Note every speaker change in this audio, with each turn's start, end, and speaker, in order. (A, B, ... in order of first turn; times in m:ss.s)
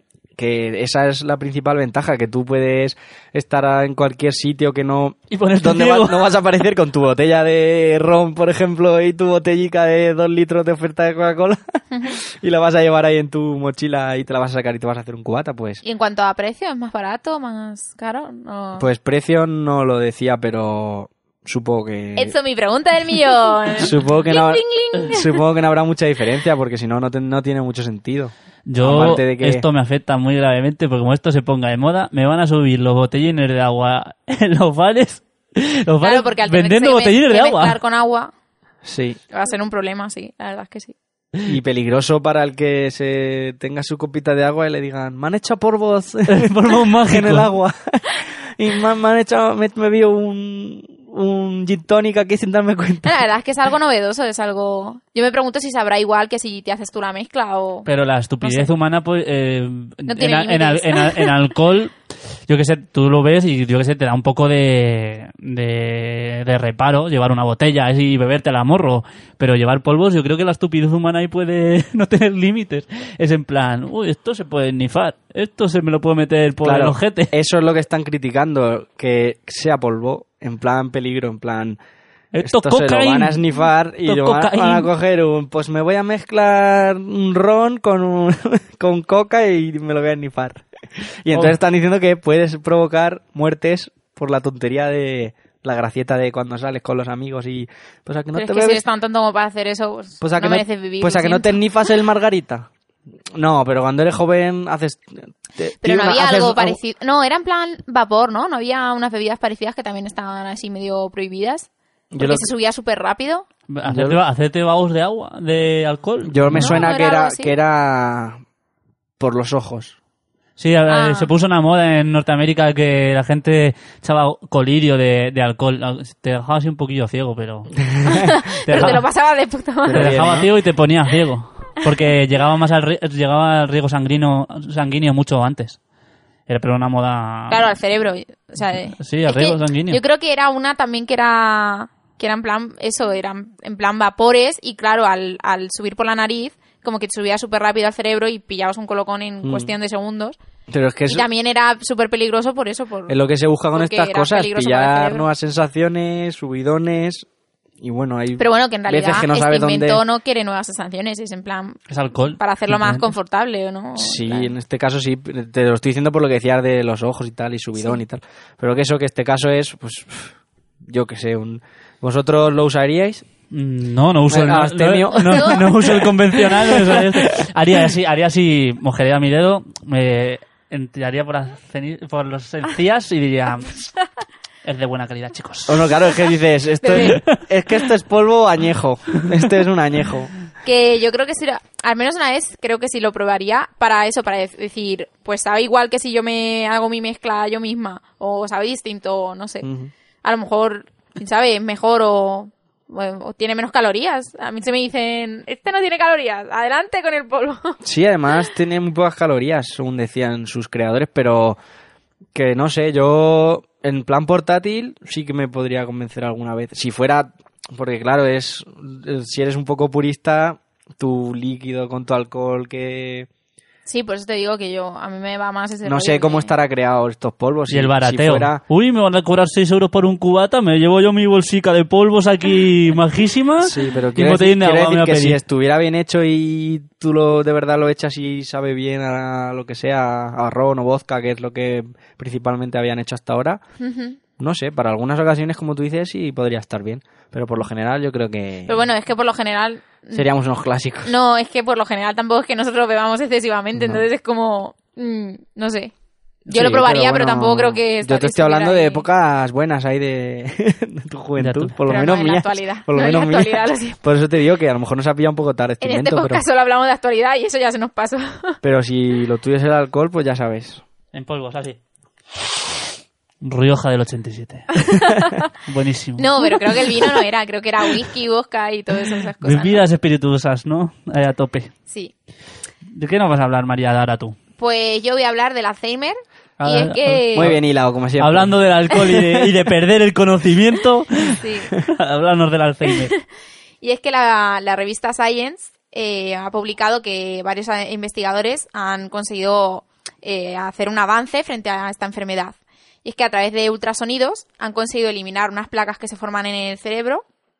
0:00.4-0:15.8 A
0:05.3-0:06.2 B
0:11.9-0:12.2 C
0:15.8-0:18.9 C
0:18.8-0:22.4 A
0:22.2-0:25.4 C
0:23.8-0:29.6 A
0:28.7-0:37.8 B
0:28.8-0:29.2 C
0:36.0-0:38.3 C
0:38.8-0:39.2 A
0:39.3-0:41.0 C
0:41.4-0:53.2 A
0:46.3-0:47.5 B
0:53.0-0:57.9 C
0:57.8-1:02.0 B
0:58.4-0:58.7 C
1:00.1-1:01.3 C
1:02.5-1:17.3 B
1:16.6-1:21.8 A
1:22.3-1:23.5 B
1:22.4-1:38.8 A
1:24.0-1:24.9 B
1:38.3-1:41.6 C
1:40.2-1:42.7 A
1:43.3-1:46.8 A
1:45.8-1:53.4 C
1:52.1-1:52.5 A
1:53.7-1:56.8 B
1:53.8-1:54.2 A
1:56.2-1:58.4 A
1:56.5-1:57.5 C
1:59.2-2:00.0 A
2:00.6-2:07.8 B
2:00.9-2:01.3 C
2:07.8-2:09.0 A
2:08.0-2:10.2 C
2:08.7-2:09.0 B
2:09.8-2:10.5 A
2:09.9-2:15.8 B
2:16.5-2:17.7 B
2:17.5-2:30.4 C
2:19.0-2:20.0 B
2:29.4-2:29.7 A
2:30.7-2:31.3 A
2:31.1-2:33.2 C
2:33.1-2:37.3 A
2:33.7-2:35.3 C
2:37.8-2:40.0 A
2:38.4-2:44.5 C
2:41.9-2:43.0 B
2:44.0-2:50.3 A
2:50.8-2:53.2 A
2:53.5-3:03.9 B
2:54.3-2:57.5 A
2:55.2-2:55.7 C
3:04.6-3:05.9 B
3:05.6-3:10.3 A
3:06.8-3:07.2 C
3:06.9-3:07.4 B
3:10.6-3:19.7 C
3:19.6-3:19.9 A
3:20.2-3:27.8 C
3:27.8-3:31.6 A
3:32.3-3:43.3 A
3:43.8-3:46.5 C
3:45.8-3:48.6 A
3:47.7-3:55.4 B
3:53.6-4:03.6 A
4:03.8-4:04.2 C
4:04.4-4:08.8 A
4:08.7-4:10.3 C
4:10.1-4:11.1 A
4:11.0-4:15.9 C
4:13.7-4:14.0 A
4:16.5-4:26.4 A
4:16.5-4:19.0 C
4:21.4-4:21.8 B
4:21.8-4:24.0 C
4:25.8-4:28.6 C
4:28.6-4:30.8 A
4:31.1-4:31.8 B
4:33.4-4:34.8 B
4:34.8-4:35.3 C
4:35.6-4:36.7 B
4:36.2-4:39.8 C
4:39.4-4:41.7 B
4:42.9-4:44.4 B
4:44.6-4:47.5 C
4:46.6-4:47.6 B
4:47.3-4:49.5 A
4:48.2-4:53.1 B
4:51.4-4:51.7 C
4:53.8-5:07.2 C